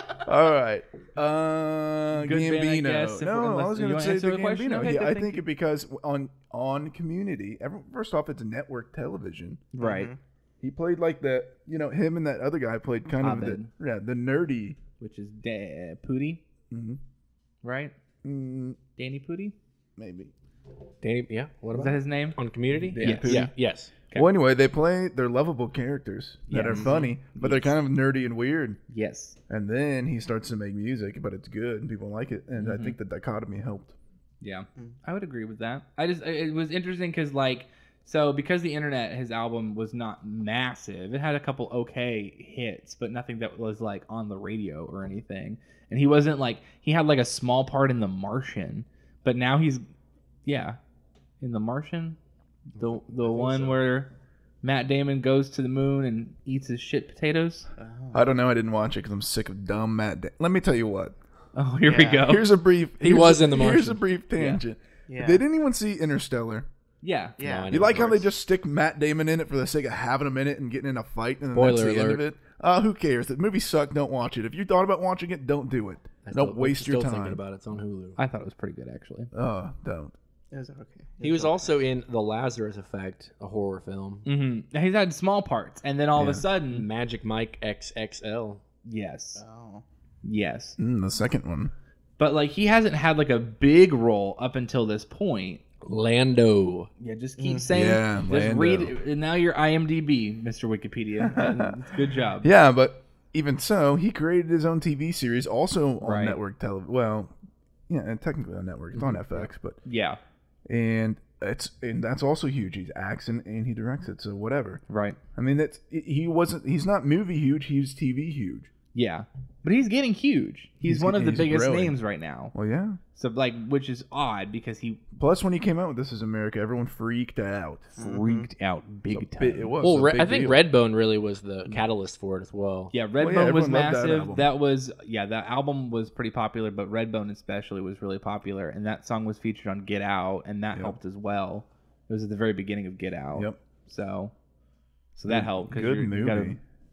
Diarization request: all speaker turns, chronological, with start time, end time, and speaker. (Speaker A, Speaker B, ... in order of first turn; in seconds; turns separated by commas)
Speaker A: 0.2-9.6, Speaker B: 2.2-5.4, Speaker B: 9.7-10.1, Speaker C: 9.8-10.2, Speaker A: 10.6-14.8, Speaker B: 13.1-13.7, Speaker B: 15.0-16.4, Speaker A: 16.7-17.0, Speaker B: 17.6-17.9, Speaker A: 18.2-18.8, Speaker B: 19.0-19.6, Speaker A: 20.0-20.3, Speaker D: 21.0-23.9, Speaker B: 21.8-22.4, Speaker A: 22.8-23.5, Speaker B: 23.0-23.5, Speaker A: 24.1-28.8, Speaker B: 26.5-27.8, Speaker D: 26.6-26.9, Speaker B: 28.9-29.4, Speaker A: 29.5-34.0, Speaker B: 32.6-33.0, Speaker B: 34.4-49.9, Speaker B: 50.5-50.8, Speaker B: 51.4-52.2, Speaker B: 52.8-54.1, Speaker D: 52.8-53.8, Speaker B: 54.6-57.7, Speaker C: 57.8-58.3, Speaker A: 58.1-61.1, Speaker B: 61.5-62.5, Speaker C: 61.9-62.2, Speaker A: 62.1-66.7, Speaker D: 63.0-64.6, Speaker C: 65.1-65.4, Speaker B: 67.0-67.4, Speaker C: 67.4-68.2, Speaker D: 67.4-68.3, Speaker A: 67.7-77.4, Speaker D: 71.5-72.2, Speaker D: 76.2-78.2, Speaker B: 78.2-79.3, Speaker A: 79.3-80.1, Speaker C: 80.5-81.8, Speaker D: 81.2-84.3, Speaker B: 84.2-86.9, Speaker A: 86.2-86.5, Speaker D: 86.7-88.6, Speaker B: 88.9-89.4, Speaker C: 89.4-89.8, Speaker B: 90.2-90.8, Speaker A: 90.8-91.7, Speaker B: 92.2-95.6, Speaker D: 95.8-96.9, Speaker B: 97.0-102.5, Speaker C: 97.4-97.7, Speaker A: 97.7-99.0, Speaker A: 101.2-101.8, Speaker A: 102.4-107.3, Speaker B: 106.0-106.4, Speaker A: 107.9-109.8, Speaker B: 109.3-110.2, Speaker A: 110.7-114.8, Speaker B: 114.9-115.2, Speaker A: 115.3-118.7, Speaker B: 118.9-122.5, Speaker A: 120.8-122.0, Speaker A: 122.5-123.0, Speaker B: 123.1-125.0, Speaker A: 125.2-127.9, Speaker C: 128.0-128.5, Speaker B: 128.0-129.7, Speaker A: 129.1-130.6, Speaker D: 129.8-132.9, Speaker B: 132.9-144.3, Speaker A: 133.2-134.5, Speaker B: 145.2-146.6, Speaker A: 145.3-146.6